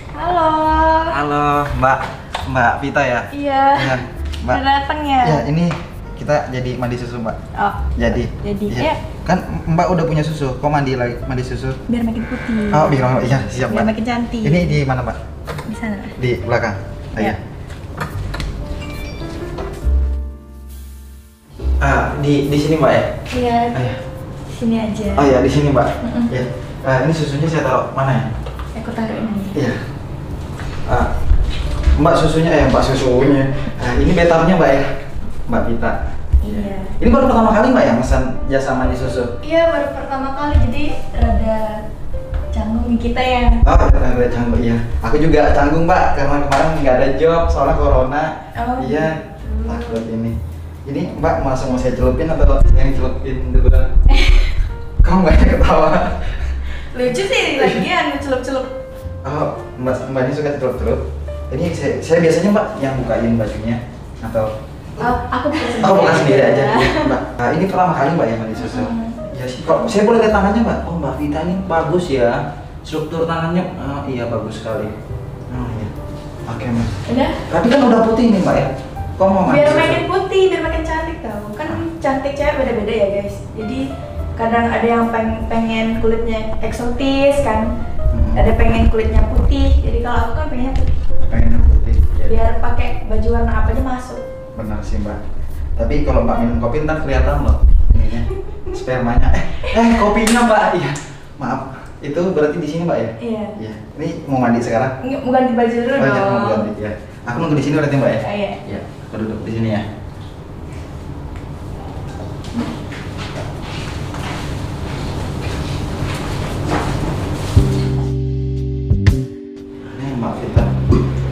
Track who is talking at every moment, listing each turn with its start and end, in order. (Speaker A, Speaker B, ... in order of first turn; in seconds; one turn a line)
Speaker A: 0.1-1.1
Speaker B: 1.1-4.6
Speaker A: 3.3-5.5
Speaker B: 5.2-7.4
Speaker A: 7.5-9.0
Speaker B: 7.9-11.8
Speaker A: 11.9-14.8
Speaker B: 12.7-13.9
Speaker B: 14.4-15.2
Speaker A: 15.7-16.1
Speaker B: 16.2-17.4
Speaker B: 21.8-23.1
Speaker A: 23.3-23.8
Speaker B: 23.7-24.0
Speaker A: 24.5-25.3
Speaker B: 25.1-28.3
Speaker A: 26.0-26.3
Speaker A: 28.7-29.6
Speaker B: 29.5-29.8
Speaker B: 31.9-34.9
Speaker B: 35.5-39.3
Speaker A: 36.4-37.0
Speaker A: 39.4-41.8
Speaker A: 42.5-43.7
Speaker B: 43.6-53.9
Speaker A: 48.5-50.0
Speaker A: 54.1-54.6
Speaker B: 55.0-56.4
Speaker A: 56.9-58.7
Speaker B: 57.4-57.8
Speaker B: 59.2-65.1
Speaker A: 65.0-67.1
Speaker B: 65.8-74.9
Speaker A: 68.5-69.2
Speaker B: 75.5-75.9
Speaker B: 76.5-76.9
Speaker A: 77.0-77.4
Speaker B: 77.5-80.0
Speaker A: 79.4-83.8
Speaker A: 84.3-87.7
Speaker B: 88.1-88.5
Speaker A: 88.3-90.9
Speaker B: 91.2-92.4
Speaker A: 92.2-94.2
Speaker B: 94.5-95.2
Speaker B: 95.8-104.9
Speaker A: 103.2-103.5
Speaker A: 105.0-106.7
Speaker B: 106.0-109.9
Speaker A: 108.2-108.6
Speaker B: 119.8-120.8